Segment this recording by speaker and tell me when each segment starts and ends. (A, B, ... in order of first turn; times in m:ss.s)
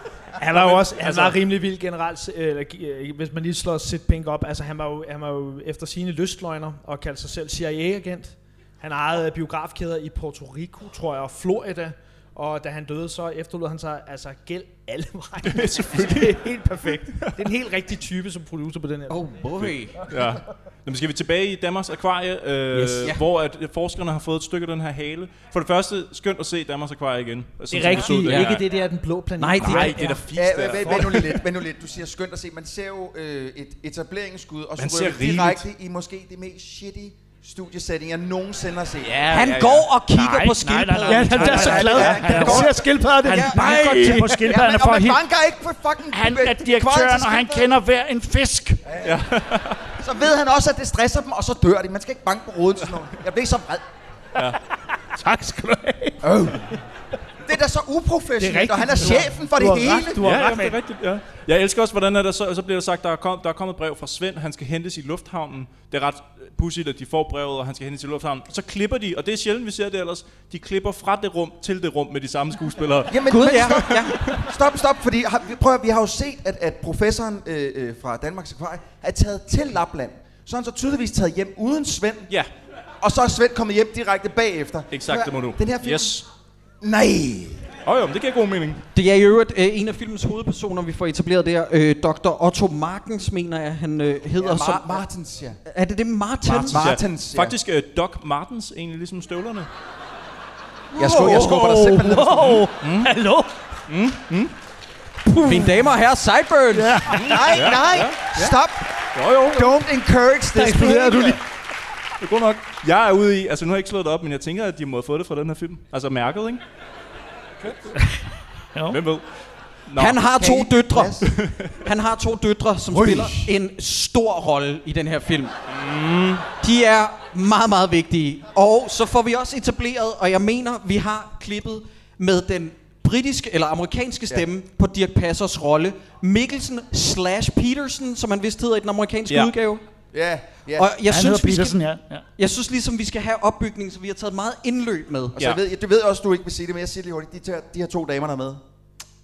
0:00.4-0:19.4 A
0:00.5-0:01.3 B
0:15.4-0:16.5 B
0:17.0-0:17.4 B
0:19.1-0:19.9 C
0:19.6-0:28.6 B
0:22.7-0:23.1 A
0:27.7-0:30.3 A
0:28.0-0:28.6 C
0:29.4-0:30.1 C
0:29.6-0:31.2 B
0:30.3-0:39.2 D
0:30.8-0:31.2 A
0:34.8-0:35.6 B
0:39.0-0:39.9 B
0:39.3-0:42.6 C
0:40.1-0:45.2 E
0:41.0-0:44.6 A
0:41.4-0:42.9 D
0:43.2-0:43.9 C
0:43.6-0:47.7 D
0:46.1-0:48.8 E
0:49.0-0:49.8 B
0:50.0-0:53.8 D
0:55.2-0:56.2 A
0:56.2-0:56.7 D
0:57.4-1:00.2 D
0:58.4-1:00.8 A
1:00.2-1:14.4 B
1:13.1-1:22.3 D
1:13.3-1:14.2 C
1:23.0-1:26.2 D
1:24.9-1:26.2 B
1:26.8-1:27.6 D
1:27.8-1:28.8 B
1:28.9-1:35.0 C
1:34.4-1:35.6 D
1:35.7-1:36.8 C
1:36.5-1:39.7 B
1:36.6-1:37.5 D
1:40.9-1:43.5 A
1:40.9-1:42.6 D
1:42.4-1:43.1 B
1:43.9-1:44.5 B
1:45.3-1:45.8 A
1:45.4-1:47.1 C
1:46.7-1:47.5 A
1:47.1-1:48.5 B
1:47.2-1:48.9 D
1:49.1-1:49.7 B
1:49.4-1:51.4 D
1:50.5-1:51.4 A
1:52.2-1:56.6 B
1:58.7-1:59.0 E
1:58.9-1:59.2 B
1:59.9-2:00.2 B
2:00.0-2:01.2 C
2:00.4-2:01.3 D
2:01.2-2:01.7 B
2:01.8-2:05.5 C
2:05.7-2:06.4 B
2:06.6-2:19.8 C
2:20.1-2:20.9 D
2:20.8-2:21.8 C
2:21.1-2:22.2 E
2:22.4-2:25.3 C
2:25.3-2:28.6 D